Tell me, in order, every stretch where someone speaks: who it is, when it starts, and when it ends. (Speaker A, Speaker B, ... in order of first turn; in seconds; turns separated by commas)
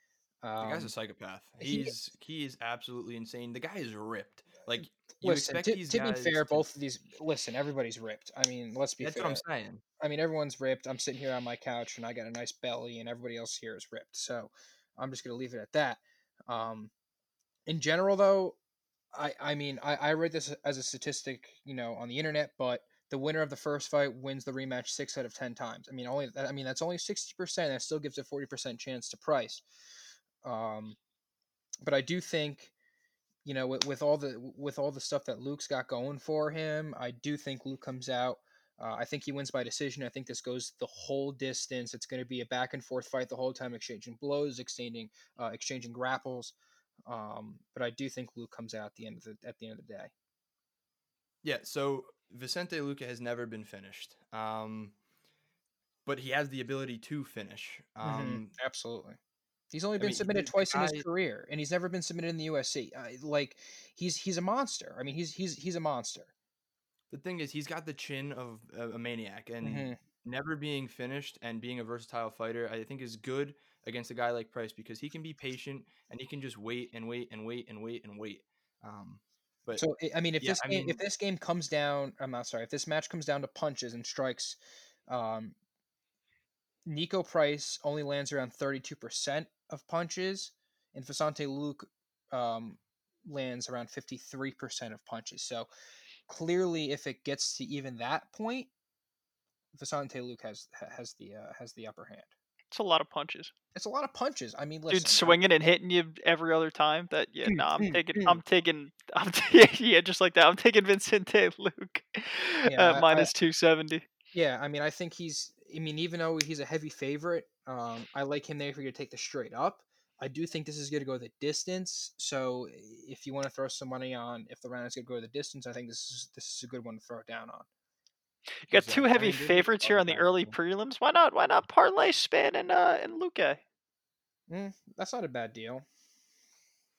Speaker A: 0.4-0.9, Speaker B: 0.6-6.6, Speaker A: 1.6-1.9, Speaker A: 5.2-9.4, Speaker B: 9.0-9.8, Speaker A: 10.0-16.9, Speaker A: 17.7-18.6, Speaker A: 19.1-29.6, Speaker A: 30.4-31.0, Speaker A: 31.8-32.7, Speaker A: 33.5-46.5, Speaker A: 47.1-50.1, Speaker B: 51.4-55.0, Speaker B: 56.1-58.5, Speaker A: 58.0-59.2, Speaker A: 59.7-66.3, Speaker B: 60.0-61.0, Speaker B: 67.1-79.8, Speaker A: 69.6-70.0, Speaker A: 79.8-84.6, Speaker B: 80.4-81.0, Speaker A: 85.1-85.6, Speaker A: 86.9-95.7, Speaker A: 96.3-98.7, Speaker A: 99.7-102.3, Speaker C: 102.7-103.5, Speaker A: 103.8-105.4, Speaker C: 104.9-114.0, Speaker A: 107.5-108.4, Speaker A: 112.7-113.3, Speaker A: 114.3-127.7, Speaker C: 128.7-133.6, Speaker B: 128.7-130.6, Speaker A: 134.5-135.8